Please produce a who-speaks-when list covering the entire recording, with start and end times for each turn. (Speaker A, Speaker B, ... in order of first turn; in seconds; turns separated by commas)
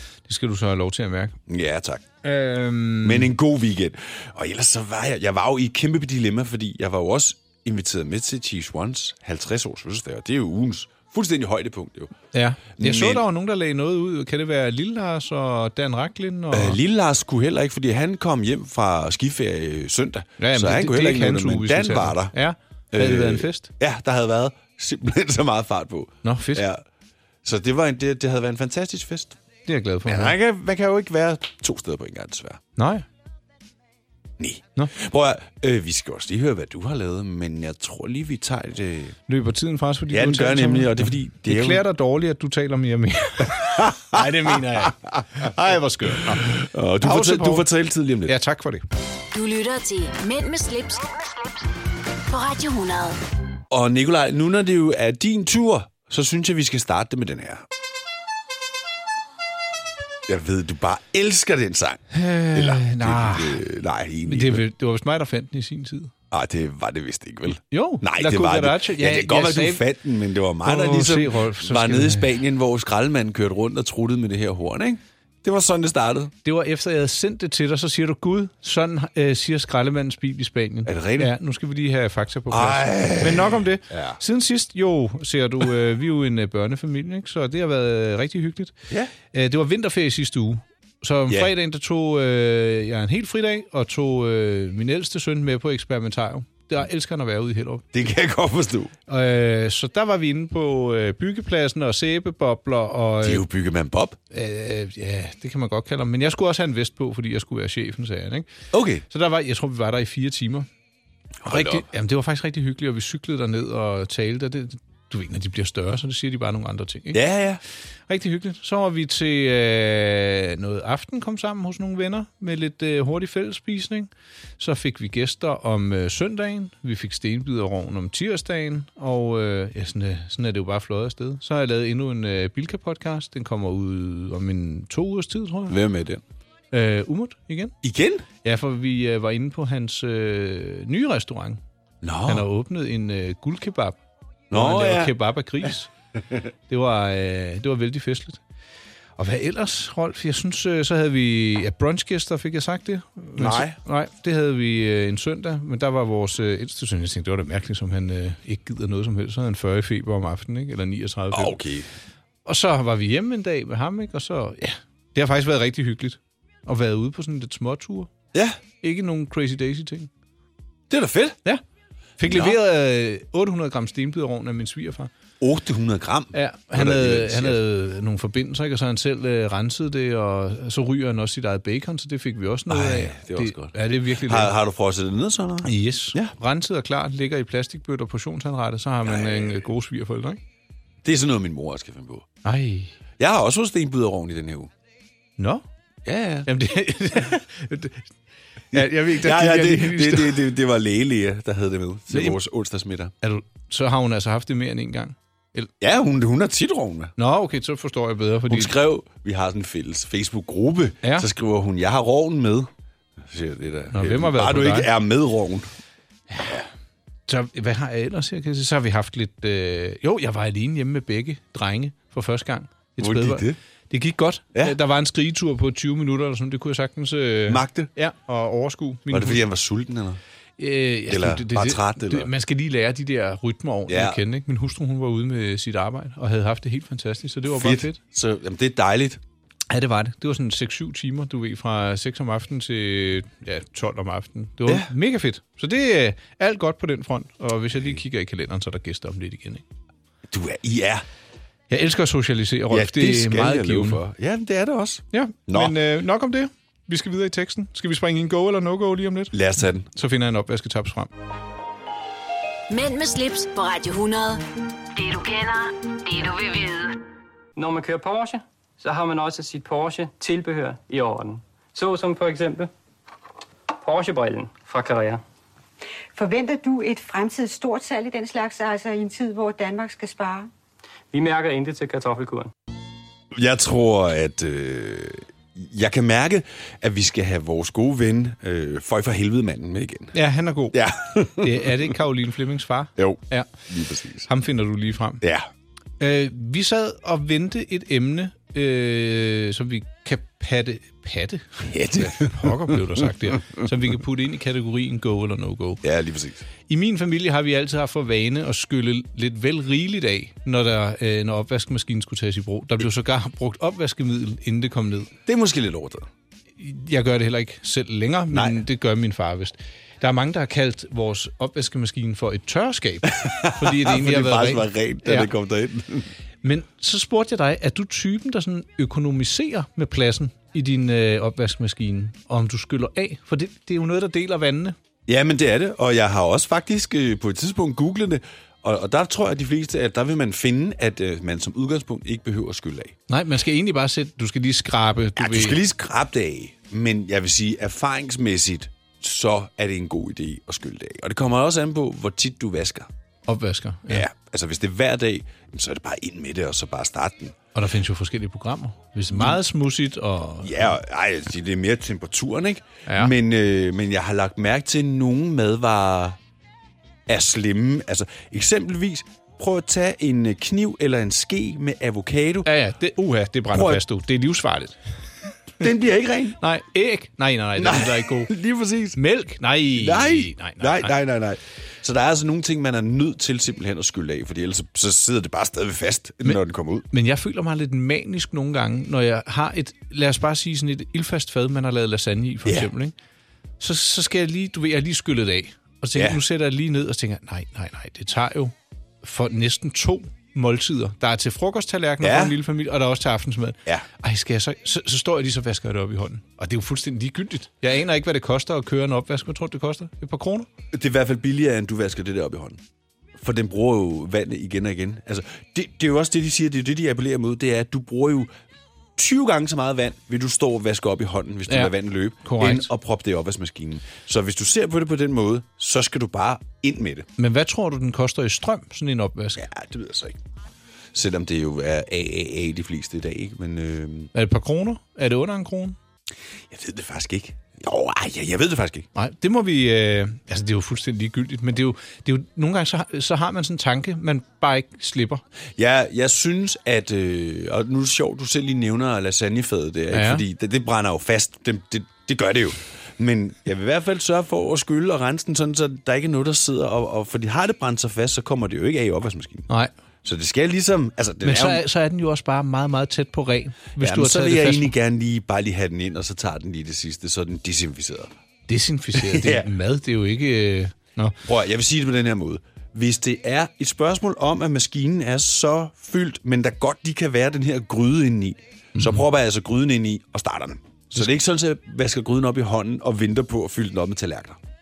Speaker A: 0.3-1.4, Speaker B: 1.5-2.0, Speaker A: 2.2-3.3, Speaker B: 3.0-12.2, Speaker A: 12.3-16.8, Speaker B: 12.8-13.2, Speaker B: 16.5-22.4, Speaker A: 20.4-23.7, Speaker B: 22.9-26.8, Speaker A: 26.2-26.6, Speaker B: 27.4-29.4, Speaker A: 29.7-30.4, Speaker B: 30.1-32.6, Speaker A: 32.8-33.0, Speaker B: 34.4-39.2, Speaker A: 39.3-47.7, Speaker B: 40.1-41.8, Speaker B: 43.8-45.2, Speaker B: 46.1-48.4, Speaker A: 48.3-48.8, Speaker C: 49.3-51.5, Speaker C: 52.3-53.2, Speaker B: 53.7-57.6, Speaker B: 60.3-64.7, Speaker A: 62.1-63.6, Speaker A: 64.2-66.1, Speaker B: 66.3-76.3, Speaker A: 67.7-69.8, Speaker A: 70.6-72.3, Speaker A: 76.5-88.7, Speaker B: 80.8-81.3, Speaker B: 82.5-84.2, Speaker A: 89.3-97.8, Speaker B: 97.9-98.9, Speaker A: 99.1-103.5, Speaker B: 103.2-104.2, Speaker A: 104.3-108.5, Speaker B: 108.7-109.0, Speaker A: 109.1-110.7, Speaker B: 111.4-111.9, Speaker A: 111.5-117.2, Speaker B: 117.1-117.6, Speaker A: 118.1-135.8, Speaker B: 135.7-136.2, Speaker A: 136.7-137.7, Speaker B: 137.8-138.3, Speaker A: 138.4-141.6, Speaker B: 142.0-142.5, Speaker A: 142.3-144.0, Speaker B: 144.5-145.2, Speaker A: 144.5-145.9, Speaker A: 146.7-148.4, Speaker A: 149.2-161.6, Speaker B: 153.4-153.8, Speaker B: 161.3-161.9, Speaker A: 162.5-168.1, Speaker B: 168.3-168.6, Speaker A: 168.8-170.1, Speaker B: 170.9-171.4, Speaker A: 172.2-175.1, Speaker B: 172.2-172.6, Speaker B: 175.4-177.6, Speaker A: 176.3-184.5, Speaker B: 182.7-186.3, Speaker A: 185.6-190.4, Speaker B: 189.0-189.7, Speaker B: 191.0-192.3, Speaker A: 192.4-192.9, Speaker B: 193.2-194.7, Speaker A: 195.4-195.6, Speaker B: 196.1-196.5, Speaker A: 196.5-198.1, Speaker A: 198.7-200.4, Speaker B: 198.7-203.1, Speaker A: 202.1-202.4, Speaker A: 203.2-205.7, Speaker B: 205.8-207.1, Speaker A: 207.2-208.7, Speaker B: 208.5-215.7, Speaker A: 213.9-214.9, Speaker A: 217.3-229.4, Speaker B: 223.0-223.6, Speaker B: 227.5-227.9, Speaker B: 229.1-230.2, Speaker A: 230.6-238.0, Speaker B: 231.1-232.3, Speaker B: 233.9-234.2, Speaker B: 237.5-239.2, Speaker A: 239.7-249.6, Speaker B: 250.3-251.0, Speaker A: 251.7-254.0, Speaker B: 252.7-255.8, Speaker A: 255.1-259.4, Speaker B: 259.3-259.9, Speaker A: 259.9-261.1, Speaker C: 262.7-267.0, Speaker D: 267.6-272.7, Speaker D: 273.8-275.2, Speaker E: 276.1-280.5, Speaker D: 281.1-282.5, Speaker B: 283.3-290.1, Speaker A: 290.1-293.5, Speaker B: 290.7-291.9, Speaker B: 293.0-294.3, Speaker A: 294.3-295.2, Speaker B: 295.2-295.5, Speaker A: 296.0-305.8, Speaker B: 301.6-303.7, Speaker B: 305.8-306.5, Speaker A: 306.7-315.1, Speaker B: 315.3-316.1, Speaker A: 316.6-325.3, Speaker B: 318.3-318.6, Speaker B: 323.1-326.1, Speaker A: 326.4-334.8, Speaker B: 335.1-342.9, Speaker A: 343.1-345.6, Speaker B: 345.2-352.9, Speaker A: 353.3-354.1, Speaker B: 353.9-357.4, Speaker A: 357.6-360.8, Speaker B: 359.1-359.4, Speaker B: 360.4-366.2, Speaker A: 362.9-363.1, Speaker B: 367.1-372.5, Speaker A: 372.4-374.8, Speaker B: 373.5-373.8, Speaker B: 375.6-376.4, Speaker A: 376.4-378.3, Speaker B: 377.6-379.0, Speaker A: 378.9-380.9, Speaker B: 379.7-386.9, Speaker A: 386.9-392.9, Speaker B: 392.4-392.7, Speaker A: 393.6-410.5, Speaker B: 395.9-396.2, Speaker B: 402.0-402.4, Speaker B: 410.7-412.6, Speaker B: 413.2-418.3, Speaker B: 419.0-427.1, Speaker A: 421.5-422.7, Speaker A: 427.2-429.4, Speaker B: 429.4-430.2, Speaker B: 430.9-434.1, Speaker A: 434.1-435.8, Speaker B: 436.5-438.9, Speaker A: 438.9-445.2, Speaker B: 445.6-459.5, Speaker A: 449.9-450.2, Speaker B: 460.0-461.6, Speaker A: 461.2-464.7, Speaker B: 463.8-468.1, Speaker A: 468.5-471.2, Speaker B: 468.9-469.5, Speaker B: 471.2-484.4, Speaker A: 478.8-479.0